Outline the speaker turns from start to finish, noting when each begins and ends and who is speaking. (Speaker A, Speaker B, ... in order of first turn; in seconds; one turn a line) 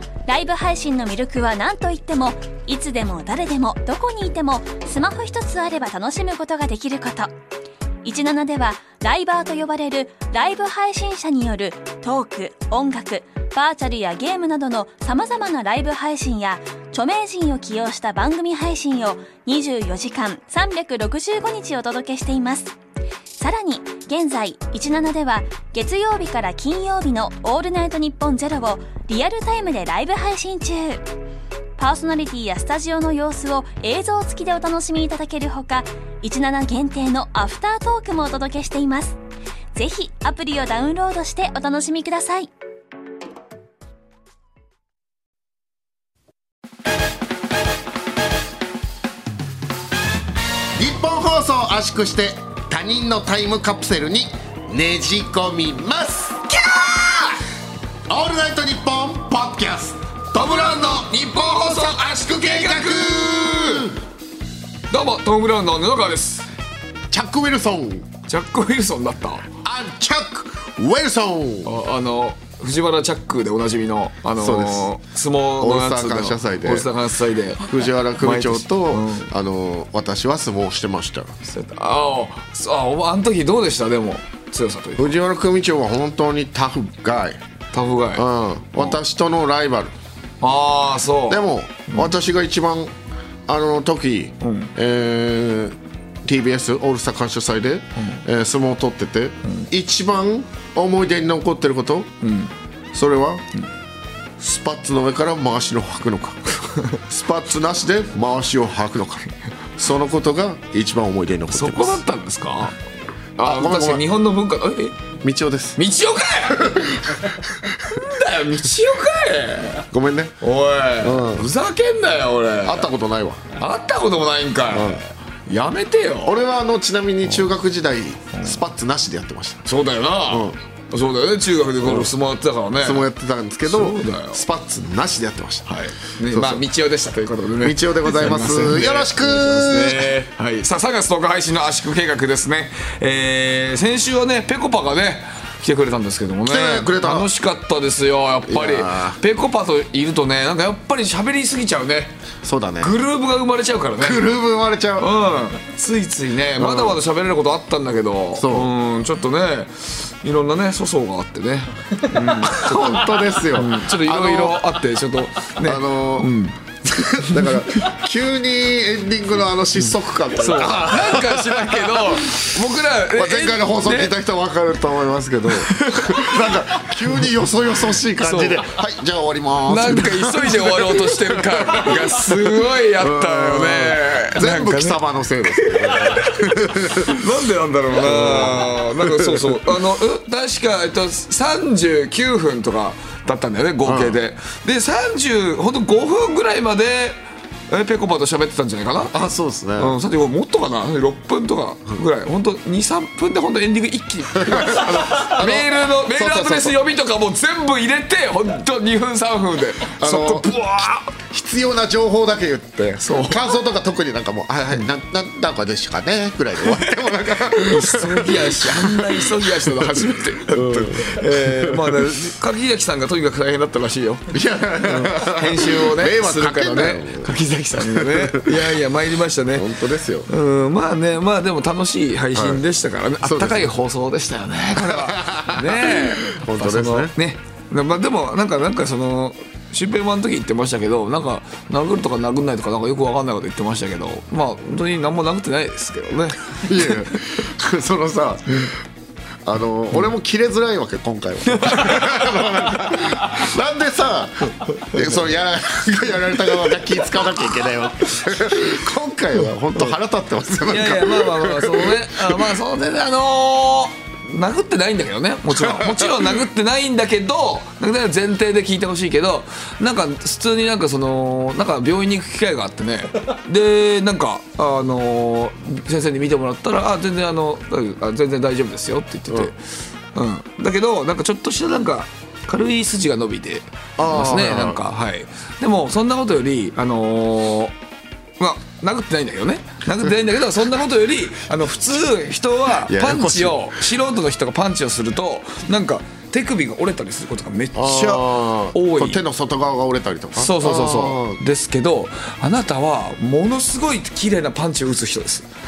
Speaker A: 0.3-7.3
Speaker A: 8.0-22.7
Speaker A: 23.4-31.0
Speaker A: 31.8-39.2
Speaker A: 39.7-42.5
Speaker B: 50.7-56.6
Speaker C: 56.8-57.3
Speaker B: 58.1-64.0
Speaker C: 60.3-63.9
Speaker C: 64.9-66.5
Speaker B: 67.1-68.1
Speaker C: 68.3-69.5
Speaker B: 69.6-71.7
Speaker C: 71.6-79.3
Speaker B: 74.3-74.9
Speaker B: 75.6-76.9
Speaker B: 77.6-81.3
Speaker C: 81.5-85.2
Speaker B: 85.0-87.4
Speaker C: 87.7-88.2
Speaker B: 88.1-89.9
Speaker C: 90.4-92.2
Speaker B: 91.3-92.9
Speaker B: 93.5-102.1
Speaker C: 94.4-94.7
Speaker C: 98.0-98.2
Speaker C: 102.2-102.5
Speaker B: 102.9-103.4
Speaker B: 104.4-112.0
Speaker C: 111.5-112.8
Speaker B: 113.4-114.0
Speaker C: 113.4-115.0
Speaker B: 115.2-115.8
Speaker C: 115.8-117.0
Speaker B: 116.6-117.2
Speaker C: 117.9-119.8
Speaker B: 119.9-120.3
Speaker C: 120.4-122.9
Speaker B: 121.0-121.5
Speaker B: 122.6-123.5
Speaker C: 123.5-126.3
Speaker B: 124.7-125.0
Speaker B: 126.2-129.7
Speaker C: 129.7-133.1
Speaker B: 130.3-130.6
Speaker B: 131.8-132.1
Speaker B: 132.8-135.8
Speaker C: 133.6-134.4
Speaker C: 135.7-152.1
Speaker B: 136.3-136.6
Speaker B: 137.6-140.1
Speaker B: 146.4-147.3
Speaker B: 148.5-149.2
Speaker B: 152.4-153.0
Speaker C: 152.8-154.4
Speaker B: 154.0-155.1
Speaker C: 155.0-166.6
Speaker B: 156.6-157.0
Speaker B: 158.3-158.7
Speaker B: 162.1-164.6
Speaker B: 165.6-172.4
Speaker C: 170.4-174.1
Speaker B: 173.1-187.2
Speaker C: 175.7-176.5
Speaker C: 178.2-178.7
Speaker C: 179.7-185.0
Speaker C: 185.6-199.1
Speaker B: 187.9-189.6
Speaker B: 193.8-194.2
Speaker B: 199.1-200.0
Speaker C: 199.8-211.2
Speaker B: 204.3-206.8
Speaker B: 210.0-210.5
Speaker B: 211.2-219.7
Speaker C: 213.0-213.5
Speaker C: 217.5-229.7
Speaker B: 220.5-221.9
Speaker B: 224.3-228.6
Speaker B: 229.5-230.3
Speaker C: 230.3-246.9
Speaker B: 232.3-232.6
Speaker B: 233.2-233.7
Speaker B: 234.8-237.1
Speaker B: 246.6-248.7
Speaker B: 249.4-262.3
Speaker C: 251.5-252.5
Speaker C: 254.9-255.2
Speaker C: 260.6-279.6
Speaker B: 265.5-266.2
Speaker C: 280.1-287.7
Speaker B: 284.0-284.8
Speaker C: 288.4-299.2
Speaker B: 292.8-293.8
Speaker B: 297.7-301.4
Speaker C: 300.4-305.5